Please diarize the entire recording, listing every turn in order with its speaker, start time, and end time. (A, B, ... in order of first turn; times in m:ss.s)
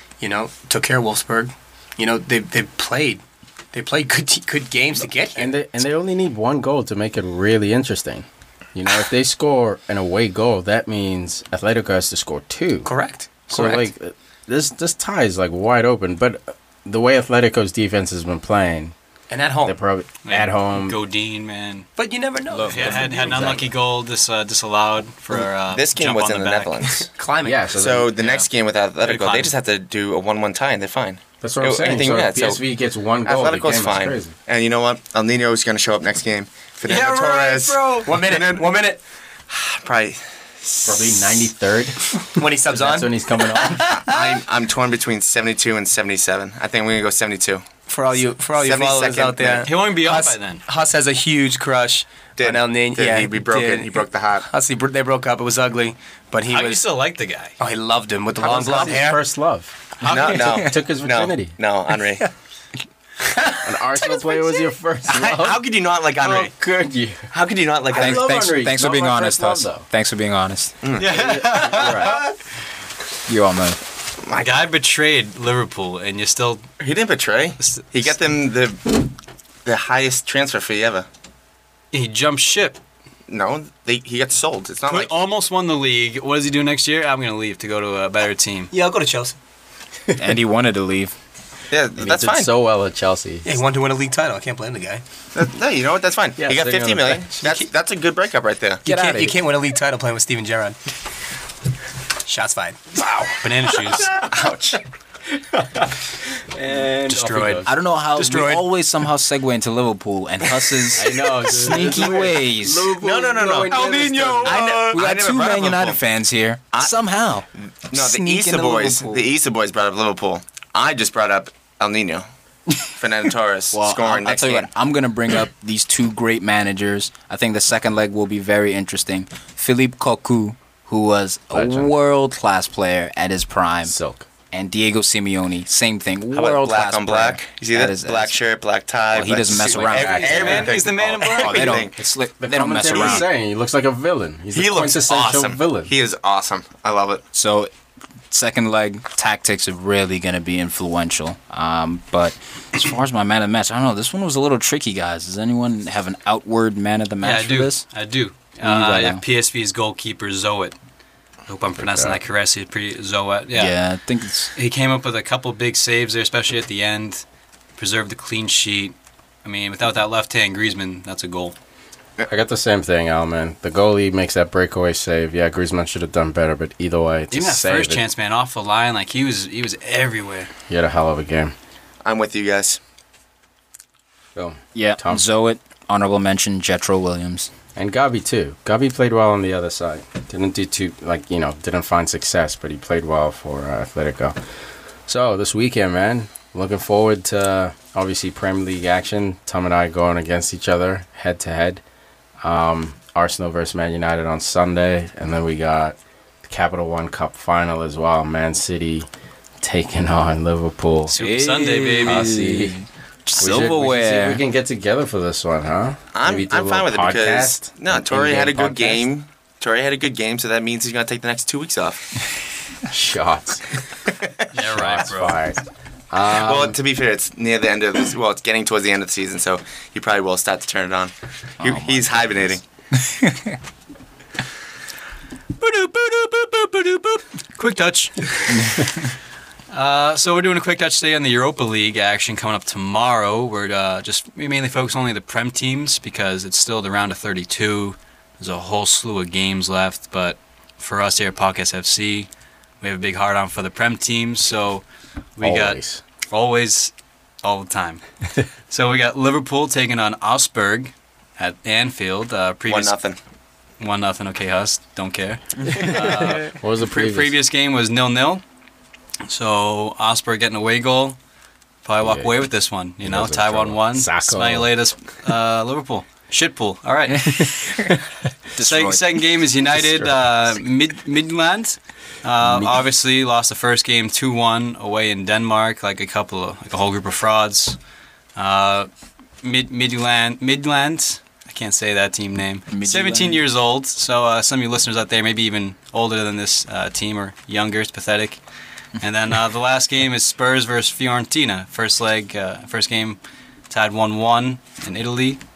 0:00.2-0:03.2 A
0:03.7-0:05.5 A
0:05.3-0:12.9 B
0:12.8-0:13.9 A
0:13.5-0:19.0 B
0:19.3-0:19.8 A
0:19.7-0:21.0 B
0:20.2-0:21.9 C
0:22.0-0:23.6 A
0:22.6-0:23.6 B
0:22.7-0:27.0 C
0:25.3-0:27.1 D
0:27.0-0:27.8 A
0:27.4-0:28.1 B
0:27.7-0:32.6 D
0:28.2-0:28.5 C
0:29.0-0:29.6 C
0:31.4-0:34.4 B
0:33.2-0:38.7 D
0:36.9-0:38.1 C
0:38.0-0:39.0 A
0:39.5-0:41.5 D
0:40.8-0:44.1 B
0:42.3-0:43.8 A
0:43.9-0:47.6 D
0:47.9-0:56.8 A
0:48.5-0:49.7 D
0:49.6-0:50.6 C
0:52.4-0:54.5 D
0:56.5-0:57.6 C
0:57.6-0:59.2 A
0:58.4-1:01.6 B
1:00.0-1:02.2 D
1:00.0-1:00.7 E
1:03.6-1:05.6 B
1:05.1-1:06.5 D
1:06.2-1:07.3 B
1:07.3-1:08.4 D
1:07.9-1:09.9 B
1:07.9-1:10.8 E
1:10.8-1:12.3 D
1:11.0-1:12.2 C
1:11.1-1:12.2 B
1:13.3-1:13.8 E
1:14.2-1:14.5 D
1:14.3-1:16.6 C
1:16.8-1:19.1 D
1:19.6-1:21.1 D
1:21.9-1:22.8 C
1:23.3-1:25.1 D
1:24.9-1:28.7 C
1:28.7-1:29.4 A
1:30.2-1:31.2 E
1:31.7-1:32.5 D
1:32.0-1:33.5 B
1:33.4-1:35.0 A
1:35.4-1:38.8 D
1:36.4-1:37.6 B
1:38.8-1:40.8 A
1:38.8-1:39.4 E
1:42.2-1:43.0 A
1:43.1-1:44.3 B
1:43.4-1:44.2 C
1:44.3-1:44.8 D
1:45.5-1:47.7 B
1:47.1-1:48.6 C
1:47.7-1:52.9 E
1:51.0-1:54.8 B
1:51.3-1:51.8 C
1:52.9-1:56.0 D
1:53.7-1:54.8 C
1:54.9-1:59.3 E
1:57.9-2:02.3 D
2:02.8-2:04.7 D
2:03.7-2:14.0 E
2:11.5-2:11.8 B
2:13.8-2:14.3 B
2:14.5-2:18.4 E
2:16.3-2:21.9 D
2:19.1-2:20.6 E
2:19.6-2:20.8 B
2:19.9-2:21.8 C
2:21.2-2:23.3 E
2:22.4-2:25.9 B
2:22.8-2:23.3 D
2:24.5-2:27.2 D
2:27.3-2:27.7 E
2:28.3-2:37.8 E
2:37.2-2:40.8 C
2:38.6-2:39.2 E
2:41.5-2:43.8 C
2:41.8-2:42.2 B
2:43.5-2:44.5 E
2:44.6-2:47.2 C
2:47.8-2:51.6 C
2:52.3-2:58.0 B
2:57.3-3:00.5 C
3:00.7-3:01.5 B
3:02.0-3:02.8 D
3:04.4-3:05.2 B
3:04.8-3:07.5 E
3:07.8-3:14.4 B
3:15.1-3:21.8 B
3:22.4-3:29.1 B
3:29.6-3:31.1 B
3:31.1-3:34.4 E
3:31.1-3:32.4 C
3:32.0-3:32.8 B
3:33.4-3:39.1 B
3:36.1-3:42.1 D
3:42.9-3:43.7 B
3:44.5-3:45.4 C
3:44.7-3:45.6 B
3:46.1-3:46.8 B
3:46.3-3:52.6 D
3:51.6-3:52.4 E
3:53.0-3:53.6 E
3:55.6-3:59.0 C
3:58.6-3:58.8 E
3:59.7-4:12.3 C
4:12.8-4:14.8 C
4:15.4-4:15.8 C
4:15.4-4:16.0 B
4:16.3-4:18.0 C
4:18.7-4:23.0 C
4:22.7-4:23.2 D
4:23.8-4:28.4 C
4:25.7-4:27.3 B
4:29.3-4:31.2 C
4:31.8-4:37.6 C
4:32.0-4:32.3 B
4:33.0-4:34.7 B
4:37.4-4:37.9 E
4:38.6-4:39.2 E
4:38.6-4:47.8 C
4:39.8-4:40.1 B
4:42.4-4:42.8 B
4:48.4-4:48.9 C
4:49.4-4:58.4 C
4:52.7-4:53.4 E
4:59.0-5:03.2 C
5:03.7-5:05.4 C